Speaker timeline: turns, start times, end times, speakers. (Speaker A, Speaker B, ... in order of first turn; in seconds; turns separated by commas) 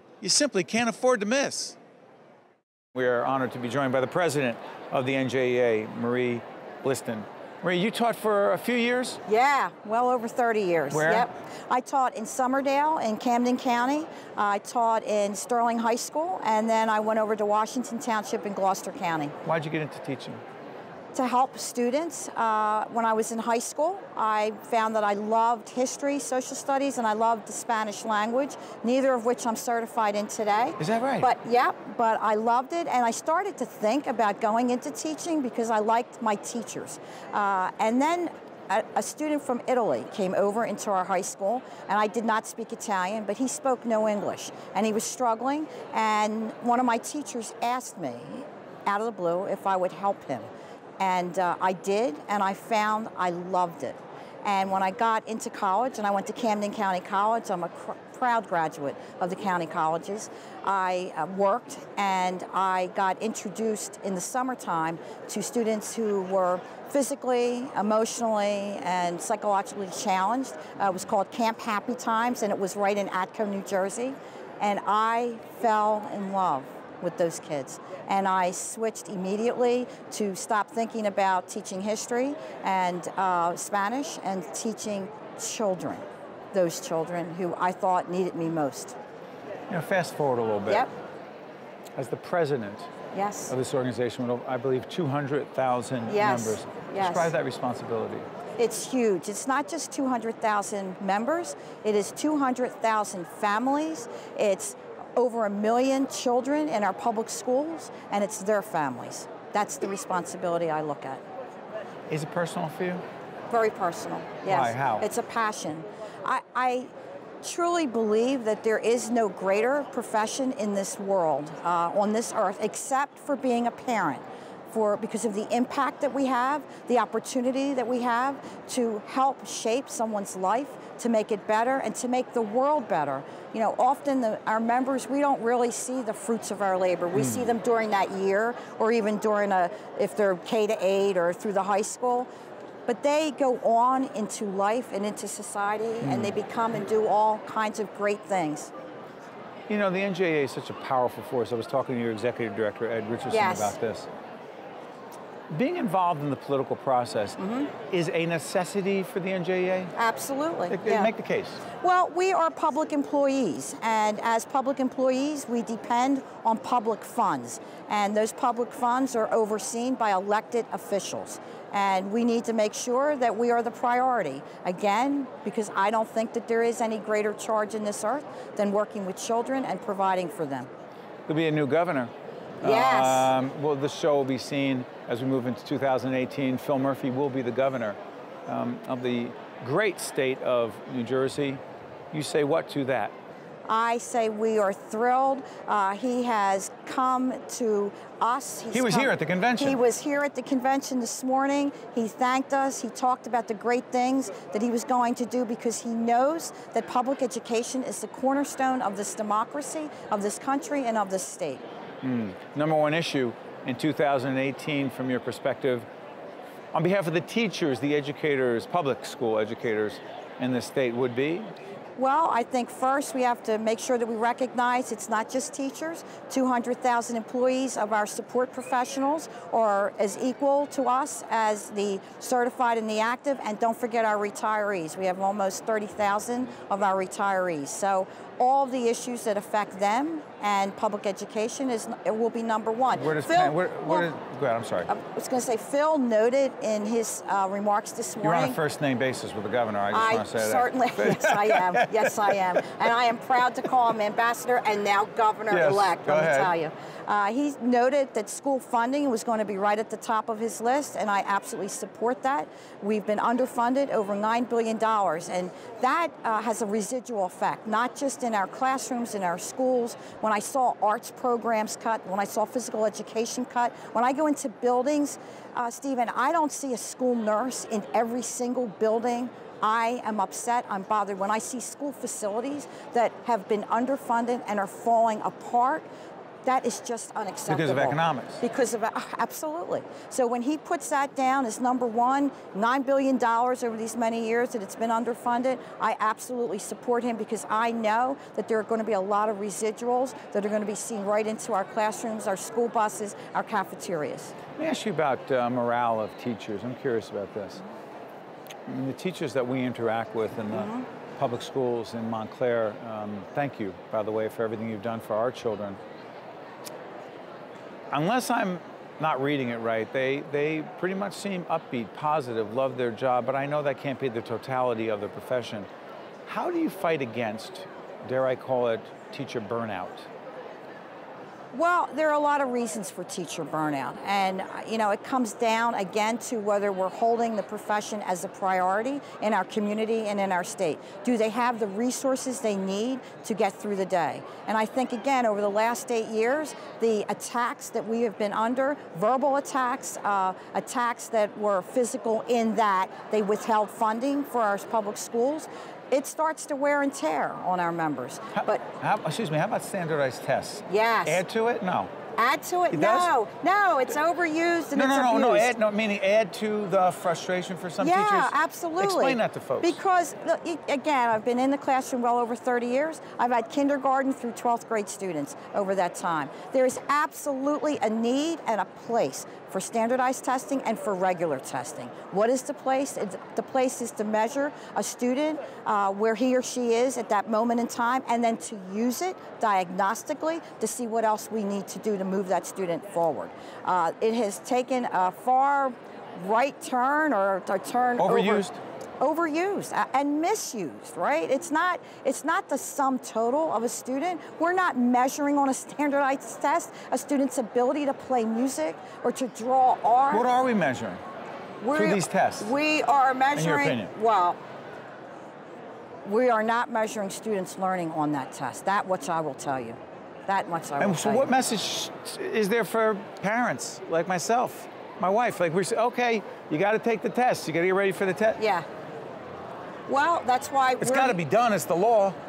Speaker A: 0.2-1.8, Speaker A: 3.0-9.2, Speaker B: 9.3-19.4, Speaker A: 10.9-11.3, Speaker A: 19.4-20.4, Speaker B: 21.1-89.0, Speaker A: 30.8-31.3, Speaker A: 89.7-90.9, Speaker A: 92.0-92.9, Speaker B: 93.1-93.5, Speaker A: 93.5-98.3, Speaker B: 96.1-97.3, Speaker B: 98.6-111.2, Speaker A: 112.1-113.0, Speaker B: 113.5-142.3, Speaker A: 114.5-115.1, Speaker A: 137.2-137.5, Speaker B: 142.9-148.7, Speaker A: 146.0-146.4, Speaker A: 149.7-154.1, Speaker B: 153.3-153.8, Speaker A: 155.5-159.9, Speaker B: 157.4-157.7, Speaker B: 160.0-161.1, Speaker A: 160.7-161.6, Speaker B: 161.8-180.7, Speaker A: 181.3-191.6, Speaker B: 182.6-183.3, Speaker A: 192.1-193.1, Speaker B: 193.7-211.6, Speaker A: 198.7-199.8, Speaker A: 212.0-215.9, Speaker A: 216.7-221.5, Speaker B: 222.0-244.1, Speaker A: 242.9-244.9, Speaker B: 244.9-248.6, Speaker A: 248.2-252.2, Speaker B: 249.9-285.9, Speaker A: 255.5-256.5, Speaker B: 286.4-304.4, Speaker A: 287.5-288.4, Speaker A: 304.6-307.6, Speaker A: 308.7-315.8, Speaker B: 310.5-310.8, Speaker A: 317.9-325.7, Speaker A: 326.3-330.1, Speaker B: 331.5-358.6, Speaker A: 358.3-361.9, Speaker B: 360.7-361.2, Speaker B: 362.2-365.5, Speaker A: 362.7-363.1, Speaker A: 364.8-369.8, Speaker B: 367.8-398.4, Speaker A: 398.0-398.6, Speaker B: 399.0-410.2, Speaker A: 410.1-411.0, Speaker B: 411.6-414.4, Speaker A: 411.7-412.5, Speaker A: 413.4-413.9, Speaker B: 416.1-421.3, Speaker A: 420.8-428.4, Speaker B: 428.4-428.7, Speaker B: 429.9-431.2, Speaker A: 430.8-432.2